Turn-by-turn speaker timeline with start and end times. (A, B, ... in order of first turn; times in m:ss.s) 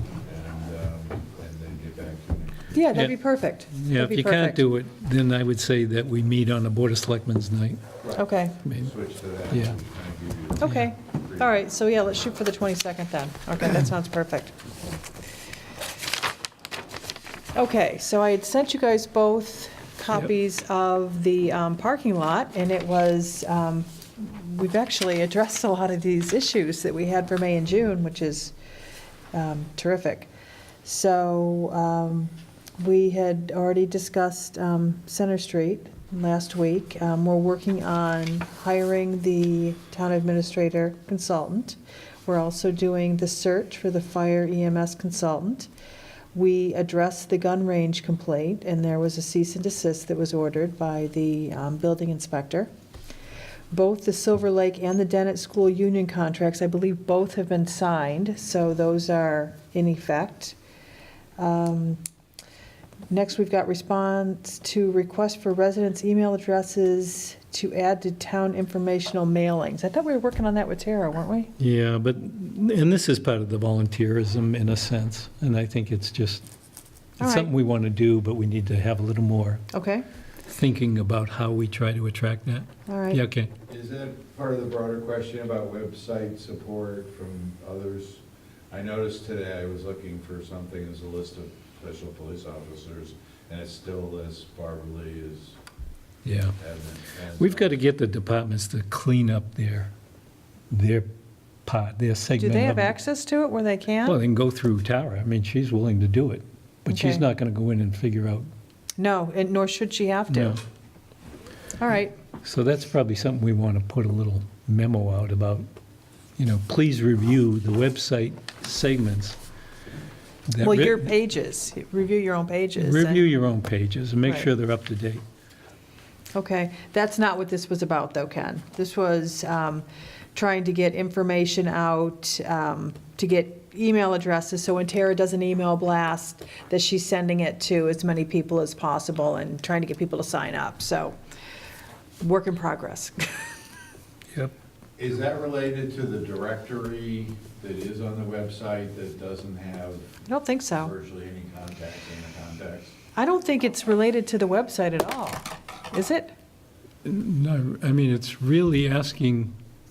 0:00.2-0:03.0 A
0:02.7-0:04.6 B
0:03.7-0:07.8 C
0:08.0-0:11.5 A
0:08.1-0:08.6 B
0:08.6-0:08.9 C
0:10.6-0:14.5 B
0:10.6-0:10.9 C
0:17.5-0:28.5 B
0:29.3-0:30.3 B
0:30.8-0:45.7 B
0:46.3-0:52.7 B
0:53.7-1:00.6 B
1:01.4-1:02.0 B
1:03.1-1:11.5 B
1:11.6-1:16.4 C
1:17.2-1:17.5 B
1:17.2-1:19.6 C
1:19.7-1:20.0 B
1:20.5-1:23.5 C
1:22.9-1:23.2 B
1:23.7-1:35.6 A
1:36.2-1:36.6 C
1:36.6-1:37.7 A
1:37.4-1:39.9 C
1:40.7-1:41.1 C
1:41.7-1:42.9 C
1:42.4-1:44.2 B
1:44.0-1:48.5 C
1:46.9-1:47.2 B
1:49.0-1:50.6 B
1:50.3-1:50.6 C
1:51.8-1:52.2 B
1:52.4-1:55.7 C
1:56.4-1:59.4 C
2:00.5-2:01.1 C
2:00.6-2:03.2 B
2:02.8-2:05.2 C
2:04.2-2:04.5 B
2:06.4-2:21.2 B
2:22.2-2:23.5 B
2:25.0-2:33.0 A
2:30.3-2:30.9 B
2:33.2-2:36.3 B
2:37.0-2:39.5 C